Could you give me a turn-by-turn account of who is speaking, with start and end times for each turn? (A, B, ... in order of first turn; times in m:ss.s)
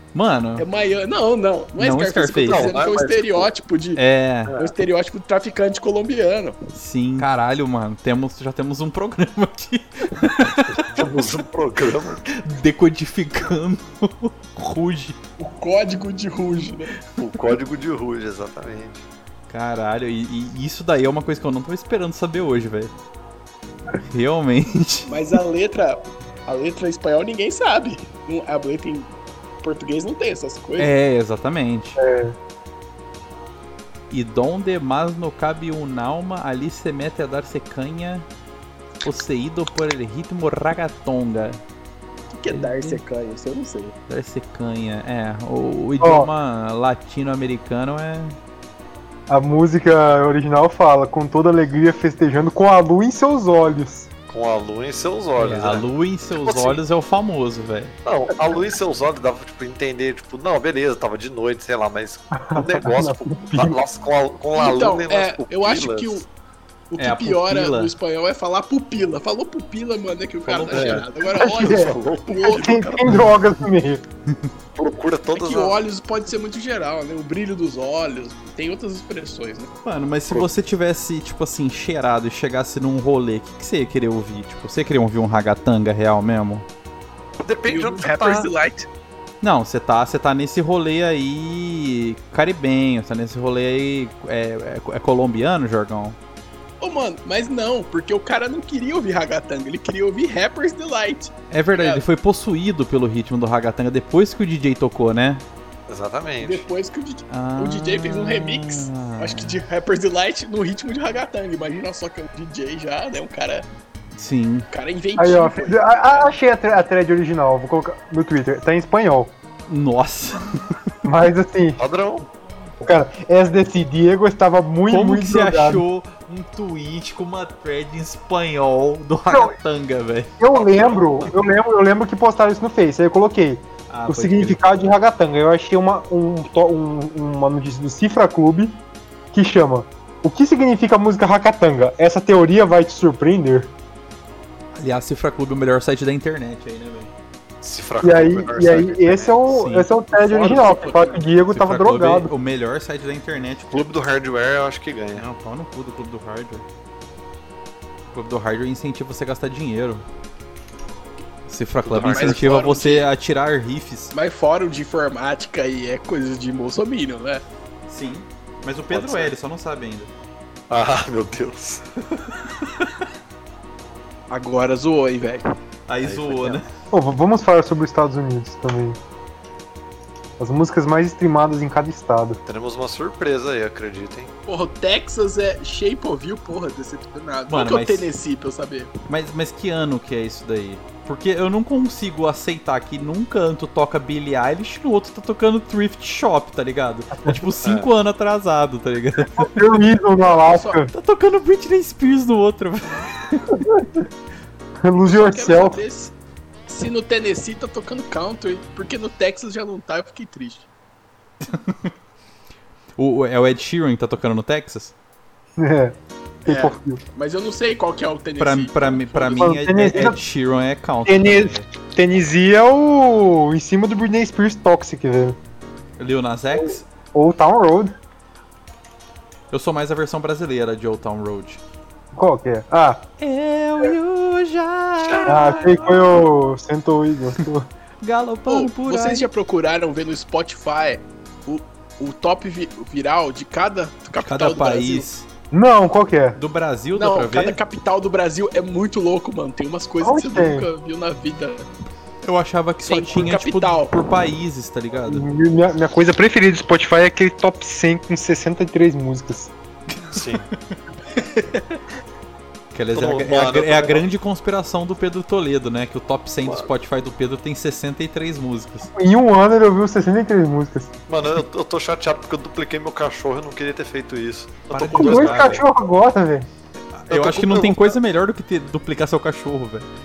0:00.1-0:00.7 A
0:00.6-0:04.0 B
0:01.8-0:02.7 A
0:02.4-0:03.5 C
0:04.0-0:04.5 A
0:04.6-0:06.6 B
0:06.7-0:11.0 A
0:10.7-0:12.2 C
0:12.3-0:15.2 A
0:15.4-0:16.9 B
0:17.2-0:19.0 C
0:19.5-0:22.9 A
0:23.9-0:25.1 A
0:25.1-0:30.9 B
0:30.8-0:32.0 A
0:32.0-0:32.3 D
0:34.1-0:38.3 A
0:39.0-0:41.6 A
0:42.3-0:43.9 B
0:42.5-0:43.0 A
0:44.1-0:48.4 A
0:46.0-0:46.3 D
0:49.3-0:54.1 D
0:54.3-0:56.8 C
0:55.4-0:57.9 A
0:58.0-1:06.2 C
1:02.3-1:03.8 D
1:04.5-1:06.3 B
1:06.9-1:13.2 B
1:07.0-1:07.9 A
1:10.5-1:13.0 C
1:10.6-1:10.9 A
1:11.3-1:14.0 D
1:14.8-1:15.8 C
1:15.3-1:19.7 B
1:19.8-1:26.7 A
1:27.4-1:28.5 C
1:27.7-1:28.9 B
1:29.4-1:36.2 A
1:36.8-1:42.0 B
1:41.5-1:45.4 A
1:45.9-1:46.7 C
1:46.4-1:53.7 B
1:47.3-1:49.6 A
1:54.1-1:54.7 A
1:54.7-1:56.3 B
1:55.2-1:59.3 D
1:59.7-2:00.4 A
2:01.0-2:01.8 D
2:01.8-2:02.3 C
2:02.8-2:05.8 D
2:04.9-2:10.3 A
2:09.3-2:09.6 D
2:10.4-2:18.8 D
2:10.5-2:11.4 C
2:13.9-2:14.6 A
2:19.3-2:23.7 D
2:24.7-2:27.1 A
2:27.6-2:29.4 C
2:28.0-2:32.3 D
2:29.5-2:30.6 A
2:30.2-2:31.2 B
2:31.5-2:33.9 A
2:33.7-2:35.2 C
2:35.1-2:36.6 A
2:38.1-2:40.0 A
2:41.5-2:44.1 A
2:41.8-2:42.6 C
2:42.0-2:43.1 B
2:44.1-2:47.4 B
2:47.9-2:50.1 A
2:48.9-2:49.3 C
2:50.7-2:51.8 C
2:54.3-2:55.4 B
2:55.9-2:56.6 A
2:56.0-2:56.6 C
2:56.9-2:59.0 D
3:00.4-3:02.4 D
3:02.4-3:04.3 C
3:04.5-3:08.9 B
3:07.5-3:08.1 A
3:09.1-3:19.6 A
3:17.6-3:17.9 C
3:19.3-3:20.9 D
3:20.4-3:20.8 B
3:20.9-3:23.7 A
3:24.8-3:25.8 D
3:25.0-3:26.1 B
3:26.7-3:30.7 B
3:31.5-3:31.9 A
3:33.0-3:34.9 A
3:35.6-3:37.0 D
3:36.4-3:39.5 B
3:38.4-3:41.7 A
3:39.3-3:40.2 D
3:41.0-3:45.4 D
3:46.0-3:46.8 A
3:46.6-3:47.9 D
3:49.5-3:51.6 A
3:52.1-3:53.1 D
3:53.2-3:56.1 A
3:55.0-3:55.3 C
3:55.2-3:57.6 D
3:58.0-3:59.3 A
3:58.5-4:05.1 B
4:04.2-4:05.2 A
4:05.5-4:06.4 D
4:06.3-4:07.6 A
4:06.9-4:11.7 B
4:10.0-4:10.7 D
4:12.2-4:15.2 A
4:12.8-4:14.0 B
4:15.0-4:19.5 D
4:20.1-4:20.5 A
4:20.1-4:20.4 C
4:22.7-4:28.9 A
4:22.9-4:24.0 C
4:26.4-4:26.7 C
4:28.9-4:30.9 D
4:31.1-4:35.6 C
4:34.7-4:35.6 A
4:34.8-4:36.5 D
4:36.9-4:39.9 A
4:37.1-4:38.0 C